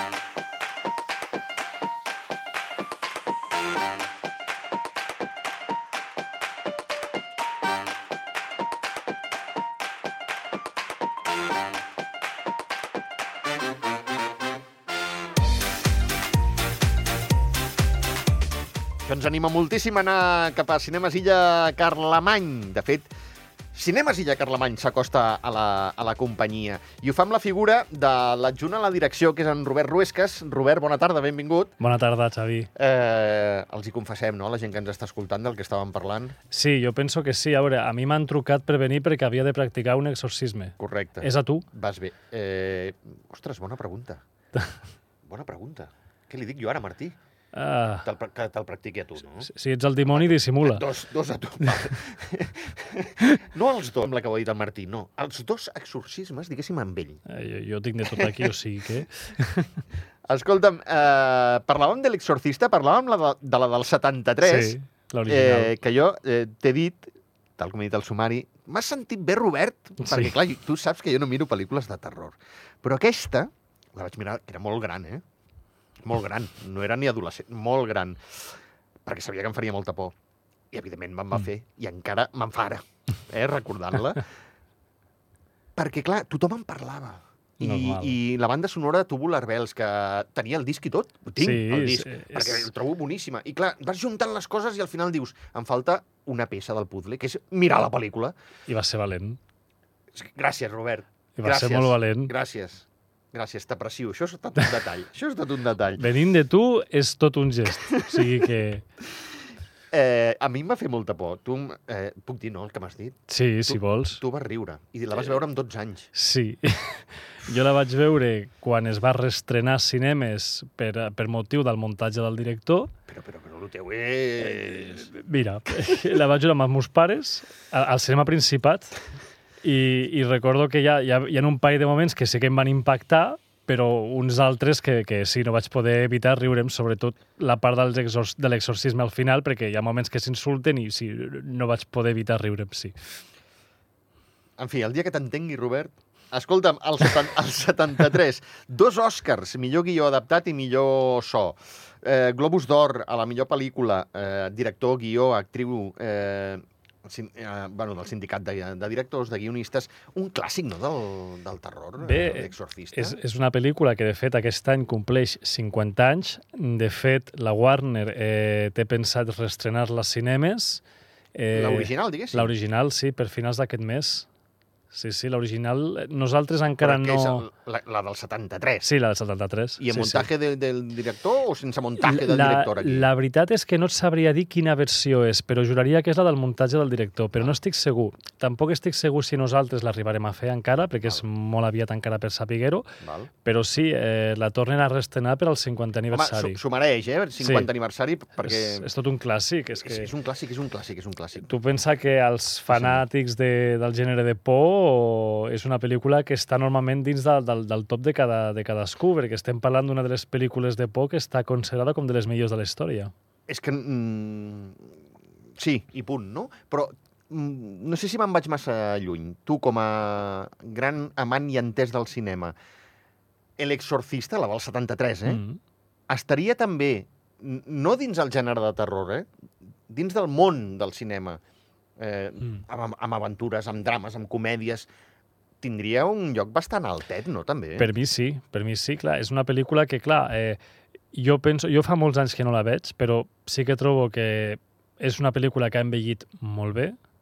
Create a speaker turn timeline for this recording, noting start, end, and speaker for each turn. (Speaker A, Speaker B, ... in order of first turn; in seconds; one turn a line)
Speaker A: 19.0-23.1
Speaker A: 23.7-31.7
Speaker B: 31.8-32.7
Speaker A: 32.8-36.4
Speaker B: 36.5-41.6
Speaker A: 40.8-44.2
Speaker A: 45.2-47.2
Speaker B: 47.5-48.1
Speaker A: 48.0-49.5
Speaker B: 49.4-50.8
Speaker A: 50.1-57.2
Speaker B: 57.3-59.7
Speaker A: 58.1-58.5
Speaker A: 60.3-64.7
Speaker B: 64.4-65.8
Speaker A: 65.3-75.2
Speaker B: 70.0-70.3
Speaker A: 76.0-80.1
Speaker A: 80.7-84.2
Speaker A: 85.8-98.3
Speaker B: 87.6-88.2
Speaker B: 91.4-92.7
Speaker B: 98.7-99.4
Speaker A: 100.1-106.0
Speaker B: 101.4-102.3
Speaker B: 106.0-108.8
Speaker A: 109.9-116.1
Speaker B: 113.3-114.2
Speaker B: 116.1-122.9
Speaker A: 123.1-125.1
Speaker B: 124.4-129.0
Speaker B: 129.6-142.9
Speaker A: 144.6-163.2
Speaker B: 162.0-170.8
Speaker B: 171.3-174.3
Speaker A: 171.5-172.5
Speaker B: 174.9-177.4
Speaker A: 176.8-178.9
Speaker B: 178.8-180.3
Speaker A: 179.8-183.1
Speaker B: 182.0-192.9
Speaker A: 193.0-193.3
Speaker B: 193.4-196.6
Speaker A: 196.1-198.9
Speaker B: 197.4-197.7
Speaker B: 198.4-200.1
Speaker A: 199.8-201.5
Speaker B: 201.4-213.1
Speaker A: 202.7-203.0
Speaker A: 213.5-214.9
Speaker A: 215.6-222.5
Speaker A: 223.6-225.4
Speaker B: 225.2-225.6
Speaker A: 226.1-229.3
Speaker A: 229.9-231.4
Speaker A: 232.0-234.9
Speaker A: 235.6-237.9
Speaker B: 237.8-240.6
Speaker B: 241.1-247.0